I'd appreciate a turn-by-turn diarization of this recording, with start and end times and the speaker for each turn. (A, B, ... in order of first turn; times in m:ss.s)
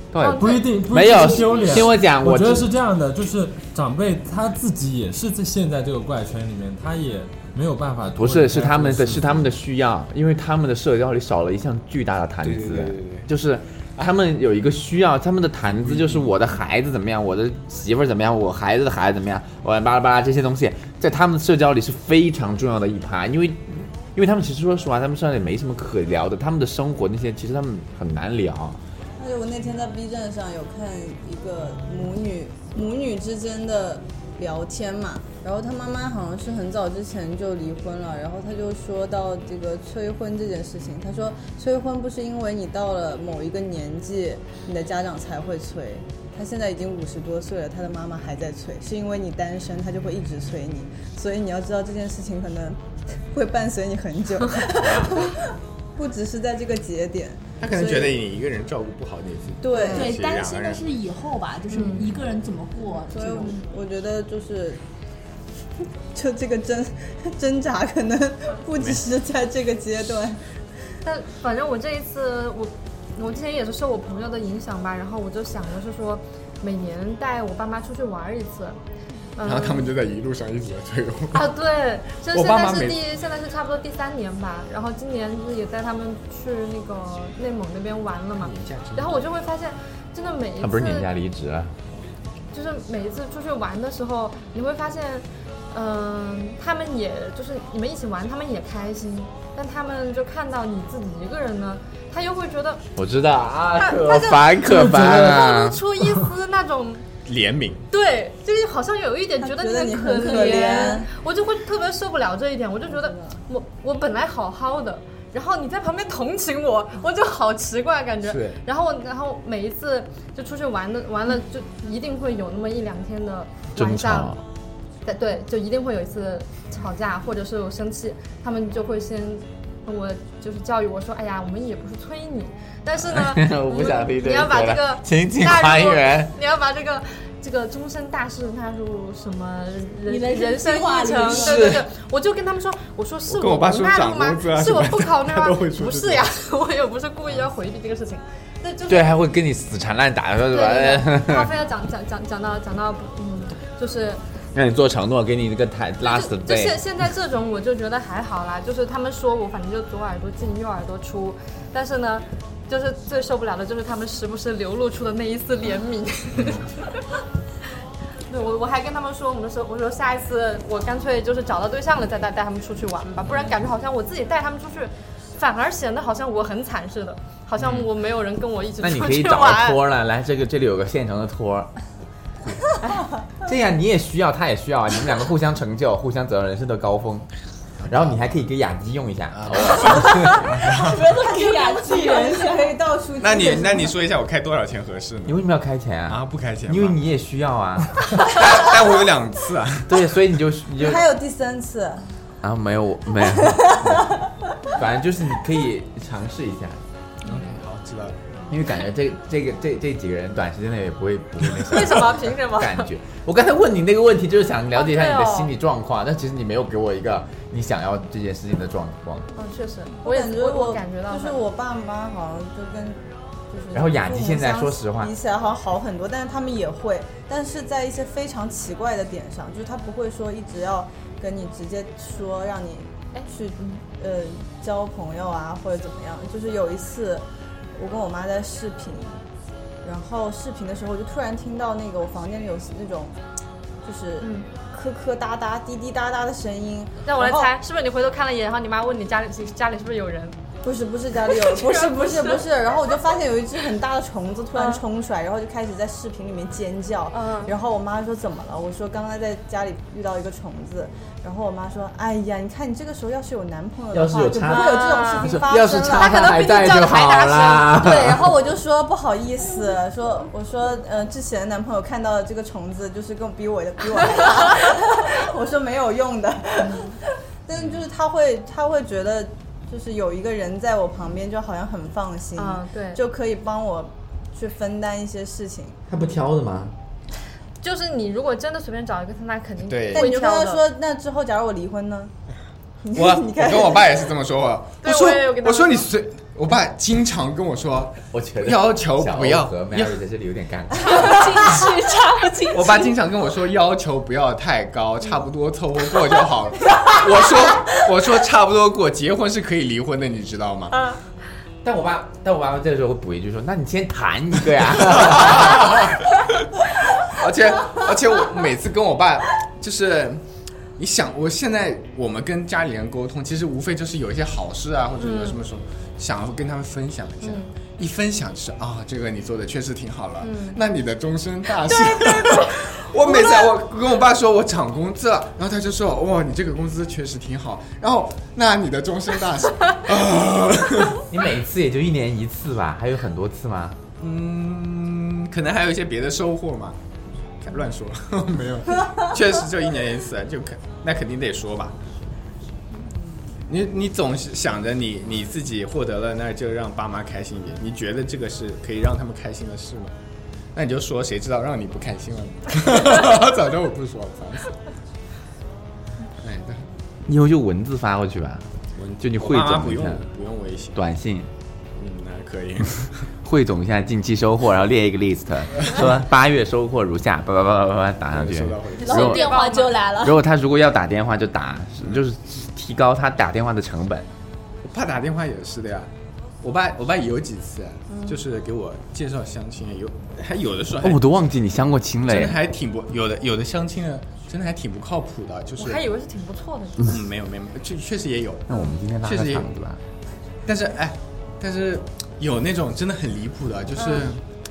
0:00.1-0:02.7 A
0:00.2-0:00.6 B
0:00.3-0:09.5 C
0:08.2-0:28.8 A
0:12.4-0:13.3 D
0:15.9-0:16.3 D
0:29.2-0:58.2 E
0:54.8-0:55.2 D
0:54.8-0:55.2 A
0:57.6-1:00.8 D
0:59.6-1:00.1 E
0:59.7-1:03.6 F
0:59.8-1:00.1 B
1:01.7-1:02.1 B
1:03.1-1:04.8 E
1:06.1-1:10.4 E
1:08.8-1:09.0 D
1:11.0-1:18.8 B
1:19.4-1:19.9 B
1:19.4-1:21.4 D
1:21.3-1:31.1 B
1:22.3-1:23.0 D
1:28.4-1:29.2 D
1:30.6-1:31.7 A
1:32.5-1:42.8 B
1:43.0-1:45.8 A
1:43.8-1:47.0 B
1:44.7-1:45.3 C
1:47.2-1:47.8 D
1:47.9-2:04.4 B
1:49.4-1:51.1 E
1:50.2-1:51.0 F
1:52.9-1:53.4 E
1:58.2-1:58.6 D
2:03.8-2:04.4 A
2:05.0-2:29.2 B
2:13.0-2:16.3 A
2:20.0-2:21.8 F
2:21.3-2:21.8 D
2:23.3-2:26.2 D
2:28.9-2:31.5 A
2:30.5-2:34.2 B
2:34.5-2:36.8 A
2:36.0-2:47.0 B
2:48.3-2:59.8 B
2:58.8-3:01.7 A
3:03.4-3:07.3 A
3:07.8-3:10.4 A
3:09.3-3:11.0 D
3:10.6-3:12.8 F
3:11.2-3:13.9 E
3:13.2-3:15.4 D
3:15.2-3:18.0 A
3:16.1-3:17.0 D
3:18.2-3:20.0 D
3:19.9-3:21.0 A
3:20.8-3:22.0 E
3:22.4-3:24.1 A
3:23.4-3:24.2 E
3:24.7-3:26.8 A
3:27.2-3:28.2 D
3:28.5-3:39.3 A
3:31.7-3:32.9 B
3:34.7-3:35.5 B
3:39.4-3:41.4 B
3:40.0-3:57.2 E
3:43.7-3:45.1 A
3:57.8-3:59.2 E
3:59.8-4:03.1 E
4:03.8-4:07.5 E
4:04.2-4:04.5 B
4:07.0-4:10.4 B
4:10.6-4:26.3 E
4:11.3-4:12.4 B
4:14.5-4:14.8 B
4:17.1-4:17.5 B
4:23.9-4:28.3 A
4:24.5-4:27.9 B
4:27.7-4:45.8 E
4:36.7-4:36.9 B
4:42.4-4:43.0 B
4:45.9-4:46.7 A
4:47.6-4:50.6 B
4:49.6-4:50.1 D
4:49.9-4:52.1 E
4:52.8-4:54.0 E
4:52.9-5:00.0 D
4:54.8-4:55.9 B
4:58.1-5:01.6 A
5:00.7-5:03.0 F
5:02.5-5:10.9 D
5:11.6-5:15.9 A
5:14.9-5:16.0 D
5:17.0-5:20.2 D
5:20.8-5:41.1 D
5:25.0-5:25.4 B
5:27.2-5:27.5 B
5:30.2-5:30.6 B
5:31.6-5:33.5 B
5:41.1-5:43.8 A
5:44.0-5:46.8 D
5:47.4-5:51.8 D
5:53.5-5:59.9 D
6:00.5-6:04.6 D
6:06.2-6:06.6 D
6:07.0-6:10.1 A
6:08.8-6:10.8 D
6:10.7-6:11.3 A
6:11.8-6:13.1 D
6:13.2-6:19.3 A
6:18.1-6:19.2 D
6:18.8-6:20.2 F
6:18.9-6:19.8 B
6:20.0-6:24.1 A
6:24.7-6:25.9 D
6:26.4-6:31.0 D
6:27.9-6:28.2 B
6:30.8-6:32.4 A
6:32.1-6:35.8 D
6:35.6-6:37.0 B
6:36.8-6:39.5 D
6:38.5-6:39.8 A
6:40.4-6:44.2 D
6:43.8-6:44.0 B